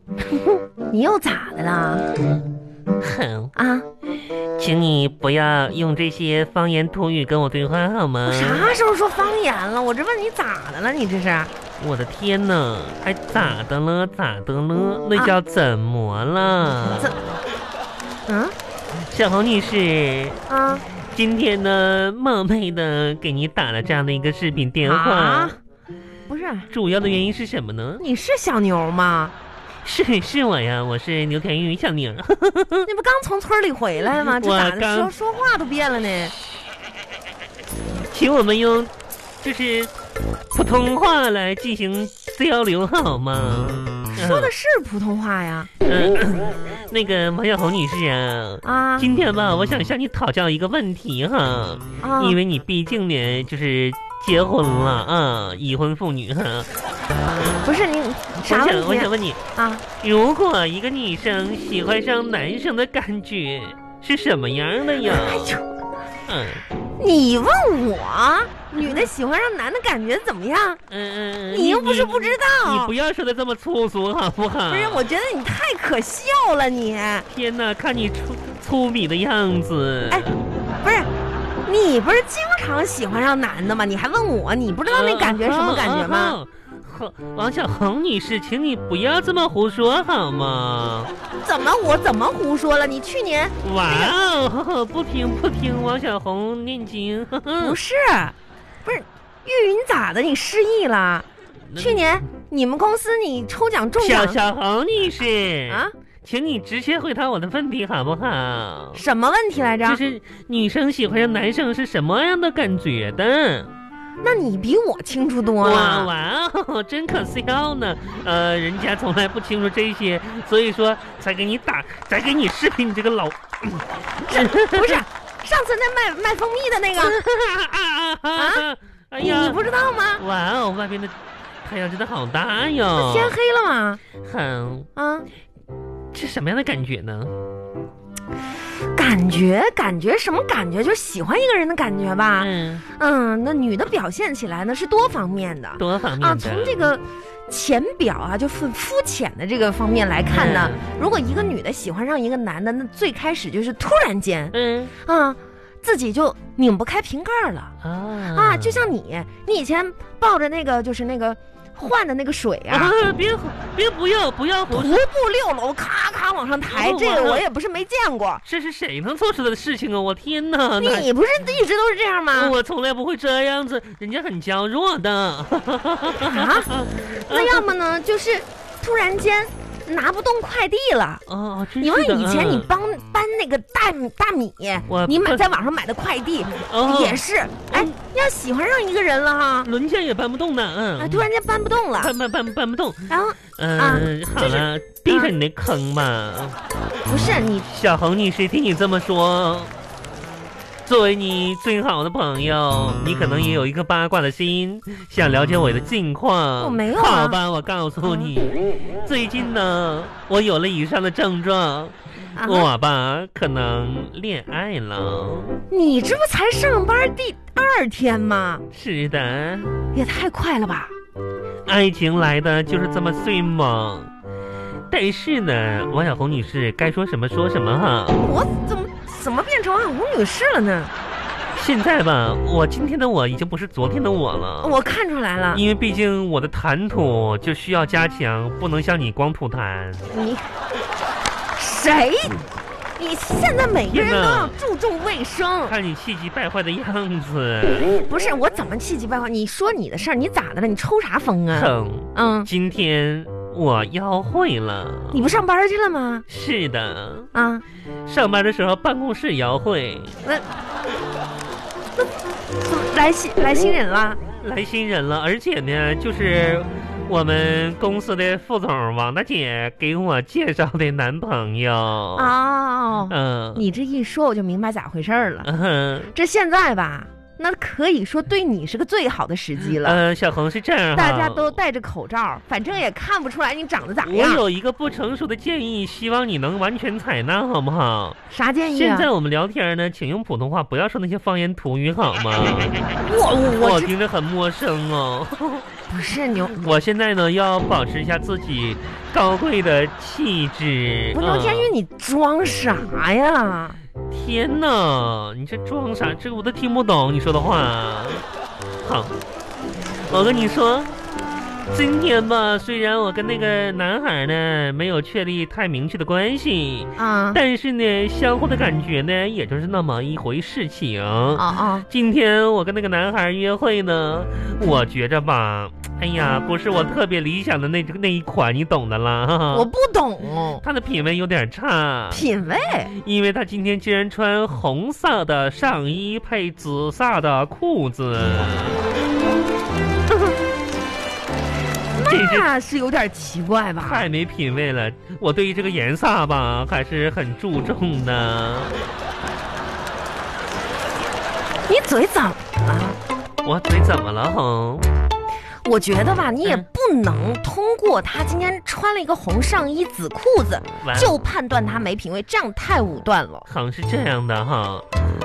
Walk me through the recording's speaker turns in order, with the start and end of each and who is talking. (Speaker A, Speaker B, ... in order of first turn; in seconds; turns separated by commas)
Speaker A: 0.3-2.0, Speaker B: 3.0-3.5, Speaker A: 3.5-3.9, Speaker B: 4.6-8.7, Speaker A: 8.2-11.5, Speaker B: 11.8-17.2, Speaker A: 18.3-18.6, Speaker B: 19.1-20.4, Speaker A: 20.5-20.8, Speaker B: 21.1-25.6, Speaker A: 24.8-25.6, Speaker A: 26.3-26.7, Speaker B: 26.7-28.0, Speaker A: 28.0-29.3, Speaker B: 29.8-32.9, Speaker A: 32.9-36.3, Speaker B: 34.2-35.1, Speaker B: 38.1-38.9, Speaker B: 39.4-39.9, Speaker B: 40.5-44.5, Speaker A: 44.2-45.7, Speaker B: 45.9-56.7, Speaker A: 48.6-49.1, Speaker A: 52.0-52.4, Speaker A: 57.6-59.8, Speaker B: 58.5-59.4, Speaker B: 60.0-65.5, Speaker A: 65.0-65.7, Speaker B: 66.3-66.6, Speaker A: 67.0-70.8, Speaker B: 68.8-69.1, Speaker B: 70.9-75.1, Speaker A: 71.5-72.9, Speaker A: 74.7-77.3, Speaker B: 77.3-80.4, Speaker A: 80.8-81.1, Speaker A: 81.7-86.4, Speaker B: 84.9-91.1, Speaker A: 91.4-94.1, Speaker B: 93.6-97.8, Speaker A: 97.6-101.3, Speaker B: 101.7-102.1, Speaker A: 101.8-104.4, Speaker B: 104.0-109.0, Speaker A: 105.7-105.9, Speaker A: 109.0-110.0, Speaker B: 109.8-113.7, Speaker A: 114.2-116.1, Speaker B: 115.6-125.0, Speaker A: 124.2-127.2, Speaker B: 127.0-129.6, Speaker A: 128.4-128.6, Speaker A: 129.2-130.2, Speaker B: 130.2-133.3, Speaker A: 132.9-134.0, Speaker B: 134.2-134.9, Speaker A: 135.0-135.3, Speaker B: 136.1-137.3, Speaker A: 138.9-157.7, Speaker B: 142.4-142.8, Speaker B: 145.8-146.8, Speaker B: 150.3-150.8, Speaker B: 154.5-154.9, Speaker B: 157.8-158.8, Speaker A: 158.3-162.9, Speaker B: 162.7-165.0, Speaker A: 164.7-168.4, Speaker B: 166.7-167.4, Speaker B: 168.4-171.1, Speaker A: 170.8-172.5, Speaker B: 172.3-177.7, Speaker A: 176.2-176.7, Speaker A: 177.2-181.2, Speaker B: 181.3-182.7, Speaker A: 181.8-189.7, Speaker B: 184.9-185.5, Speaker B: 186.6-187.9, Speaker B: 189.6-191.3, Speaker A: 191.0-192.1, Speaker B: 192.0-196.6, Speaker A: 193.1-195.3, Speaker A: 197.1-197.7, Speaker B: 197.7-199.7, Speaker B: 200.9-215.6, Speaker A: 206.6-207.4, Speaker A: 212.3-212.7, Speaker A: 215.7-218.6, Speaker B: 218.7-219.8, Speaker A: 219.9-220.9, Speaker B: 221.7-224.1, Speaker B: 224.9-228.2, Speaker A: 228.1-230.9, Speaker B: 231.6-234.8, Speaker A: 234.6-235.6, Speaker B: 235.5-240.1, Speaker A: 240.1-240.5, Speaker A: 241.6-242.5, Speaker A: 243.0-245.8, Speaker B: 243.9-244.6, Speaker B: 245.7-247.9, Speaker A: 247.9-252.5, Speaker B: 251.5-255.2, Speaker A: 255.1-256.2, Speaker B: 256.3-257.3, Speaker A: 257.3-257.6, Speaker B: 258.1-260.2, Speaker A: 260.2-260.5, Speaker A: 262.6-264.2, Speaker B: 264.4-272.3, Speaker A: 272.2-275.5, Speaker B: 273.1-273.6, Speaker B: 275.4-276.1, Speaker A: 276.1-280.0, Speaker B: 279.7-281.6, Speaker A: 280.9-284.4, Speaker B: 284.0-288.2, Speaker A: 288.3-289.1, Speaker B: 288.7-292.8, Speaker A: 293.1-293.9, Speaker B: 293.6-295.6, Speaker A: 295.9-296.7, Speaker B: 296.6-301.7, Speaker A: 301.1-303.8, Speaker B: 304.1-308.2, Speaker B: 308.8-309.1, Speaker B: 310.1-310.9, Speaker B: 311.7-329.7, Speaker A: 317.0-317.4, Speaker A: 321.4-321.9, Speaker A: 329.5-330.6, Speaker B: 330.6-332.3, Speaker A: 332.1-332.9, Speaker B: 332.9-338.8, Speaker A: 341.9-344.1, Speaker B: 342.1-342.5, Speaker B: 343.8-348.8, Speaker A: 351.7-353.0, Speaker B: 353.4-354.9, Speaker A: 355.6-363.5, Speaker B: 360.8-361.1, Speaker B: 363.5-364.9